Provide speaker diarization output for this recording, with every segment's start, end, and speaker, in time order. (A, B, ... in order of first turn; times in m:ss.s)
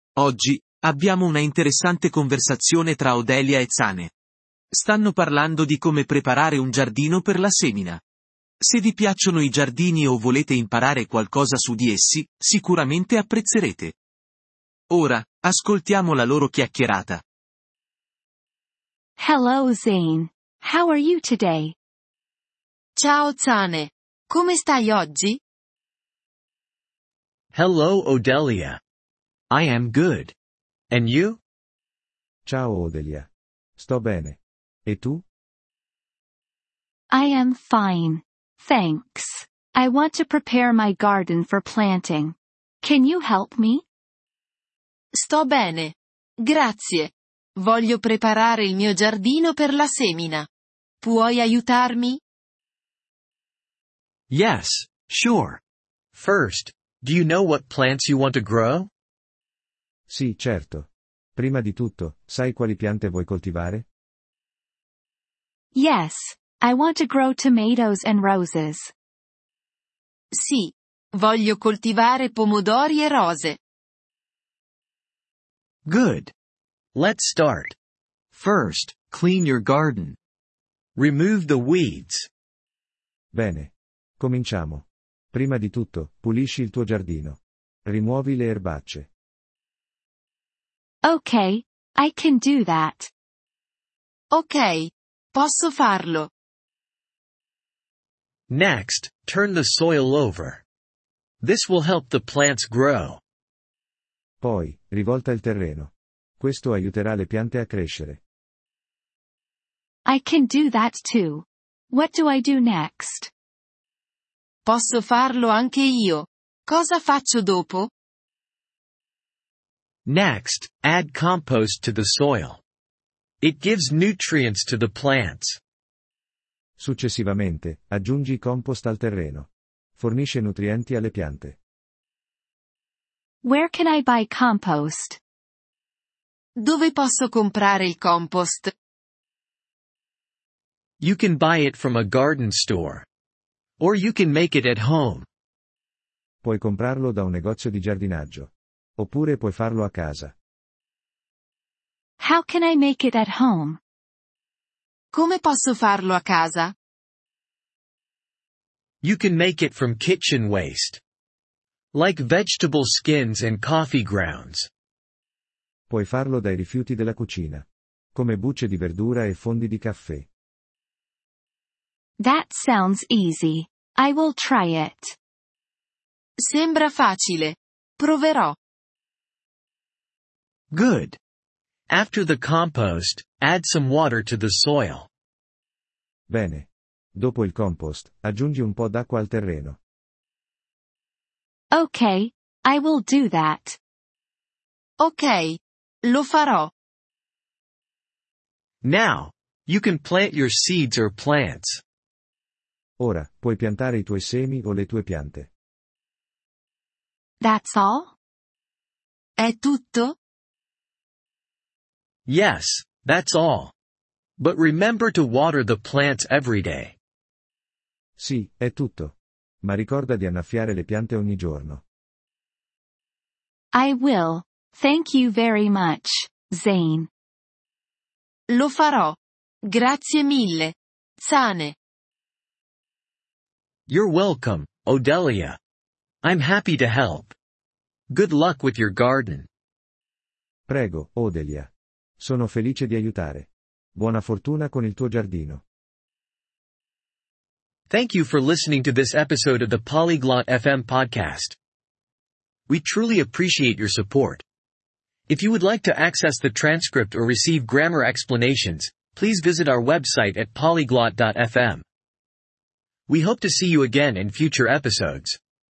0:00.2-0:04.1 A
0:04.7-0:08.0 A
0:08.6-0:14.0 A
0:14.9-0:17.2 A
0:19.2-0:21.8 B
0:23.0-0:25.4 C
0:27.5-0:28.8 D
0:29.5-0:30.3 D
0:30.9-0:31.4 D
0:32.5-0:35.2 E
0:37.1-0:43.8 B
0:45.2-0:50.5 C
0:51.0-0:52.2 C
0:54.3-0:55.6 D
0:56.1-0:58.9 D
1:00.1-1:03.8 E
1:05.8-1:08.9 B
1:10.3-1:13.6 C
1:15.9-1:16.3 D
1:17.0-1:17.8 D
1:18.3-1:20.2 D
1:21.0-1:22.3 D
1:23.3-1:29.1 E
1:31.0-1:33.1 B
1:34.3-1:36.3 C
1:38.5-1:40.6 D
1:41.4-1:43.2 D
1:44.4-1:48.2 E
1:50.0-1:53.3 B
1:54.7-1:57.9 C
2:00.1-2:02.6 D
2:03.4-2:05.6 D
2:06.8-2:11.6 E
2:13.4-2:15.2 B
2:16.6-2:18.7 C
2:21.0-2:23.1 D
2:23.8-2:25.3 D
2:26.4-2:30.3 E
2:32.2-2:33.8 B
2:35.1-2:36.7 C
2:39.0-2:41.0 D
2:41.9-2:44.7 D
2:45.9-2:50.3 E
2:52.2-2:55.2 B
2:56.4-2:58.6 C
3:00.7-3:01.2 D
3:01.9-3:05.1 D
3:06.3-3:09.8 E
3:11.7-3:13.8 B
3:15.0-3:16.7 C
3:18.8-3:21.8 D
3:23.0-3:25.5 E
3:27.4-3:28.1 B
3:29.4-3:30.2 C
3:32.3-3:33.7 D
3:34.4-3:37.0 D
3:38.2-3:41.8 E
3:43.7-3:47.1 B
3:48.5-3:51.8 C
3:53.9-3:55.6 D
3:56.2-3:57.3 D
3:58.1-3:59.5 D
4:00.7-4:05.6 E
4:07.9-4:11.6 D
4:12.7-4:14.4 D
4:15.3-4:21.8 D
4:23.1-4:25.4 D